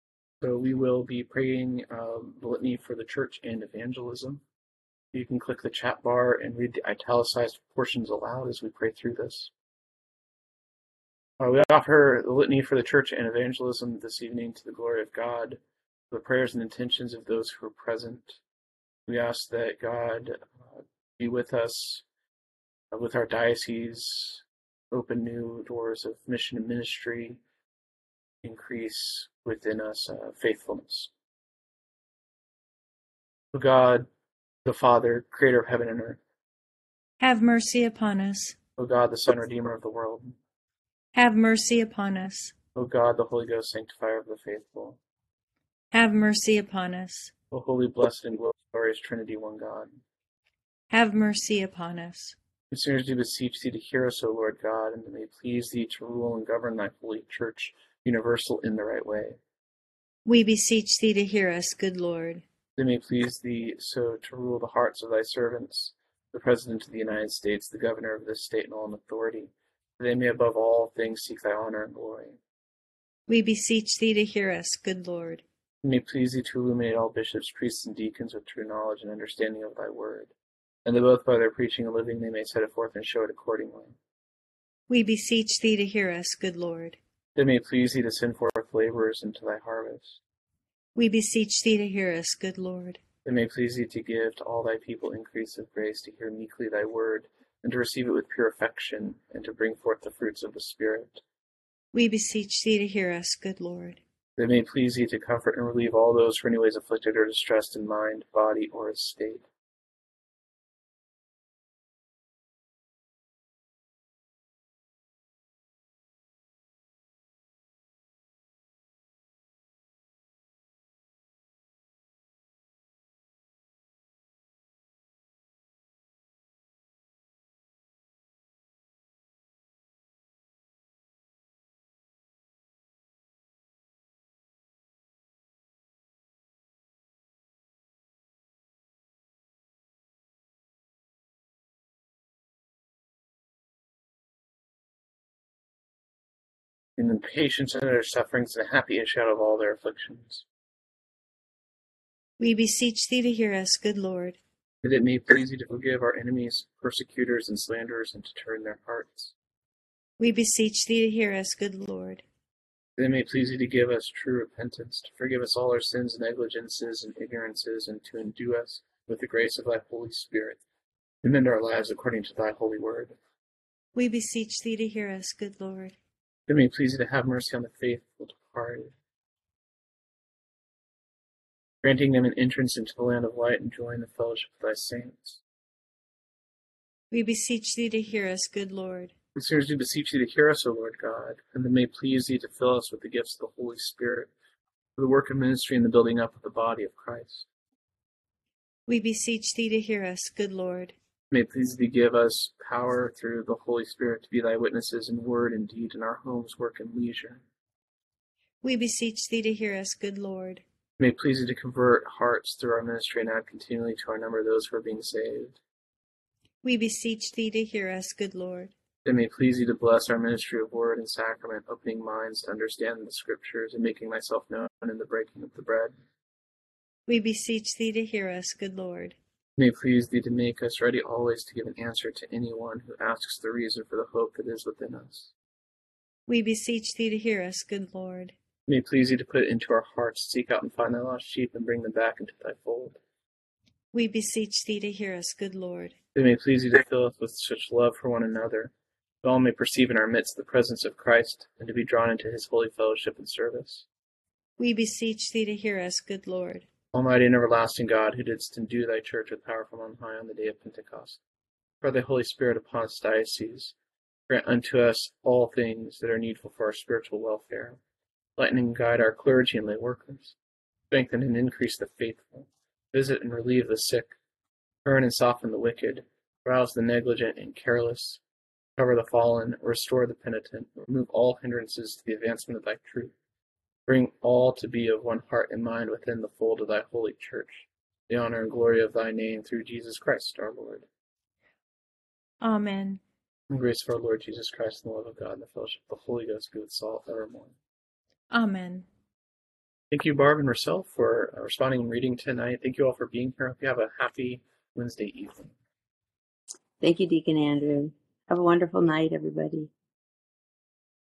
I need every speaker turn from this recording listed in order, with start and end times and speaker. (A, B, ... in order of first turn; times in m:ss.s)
0:00.4-0:04.4 A
0:05.1-0:09.5 A
0:11.4-0:18.4 A
0:19.0-0:22.0 A
0:22.9-0:27.4 A
0:28.4-0:31.1 A
0:33.5-0:34.1 A
0:34.6-0:36.2 A
0:37.2-0:38.6 B
0:38.8-0:40.3 A
0:41.1-0:42.5 B
0:42.7-0:45.0 A
0:45.9-0:47.3 B
0:47.5-0:50.0 A
0:50.9-0:52.4 B
0:52.7-0:59.4 A
1:00.2-1:02.4 B
1:02.8-1:12.4 A
1:13.3-1:15.4 B
1:15.8-1:20.3 A
1:20.8-1:24.0 A
1:24.9-1:27.0 B
1:27.3-1:30.2 A
1:30.9-1:33.0 B
1:33.2-1:41.2 A
1:41.9-1:44.0 B
1:44.4-1:49.4 A
2:27.0-2:30.4 A
2:32.4-2:34.4 B
2:34.8-2:39.3 A
2:40.2-2:42.2 B
2:43.0-2:50.6 A
2:51.2-2:53.2 A
2:53.9-2:56.0 B
2:56.5-2:58.9 A
3:01.8-3:05.4 A
3:07.1-3:09.1 B
3:09.3-3:14.3 A
3:15.0-3:17.4 A
3:18.9-3:20.9 B
3:21.3-3:27.4 A
3:28.6-3:30.6 B
3:31.0-3:35.6 A
3:36.6-3:38.7 B
3:39.0-3:45.9 A
3:47.1-3:49.2 B
3:49.6-3:55.3 A
3:56.3-3:58.3 B
3:58.7-4:03.0 A
4:03.9-4:06.0 B
4:06.1-4:13.8 A
4:14.6-4:16.7 B
4:16.9-4:21.2 A
4:21.8-4:23.7 A
4:24.3-4:27.8 A
4:28.4-4:30.4 A
4:30.9-4:34.2 A
4:34.8-4:38.2 A
4:38.8-4:43.1 A
4:43.9-4:50.8 A
4:52.4-4:53.0 B
4:53.5-4:57.5 A
4:58.3-4:58.8 B
4:59.9-5:05.5 A
5:06.8-5:09.7 C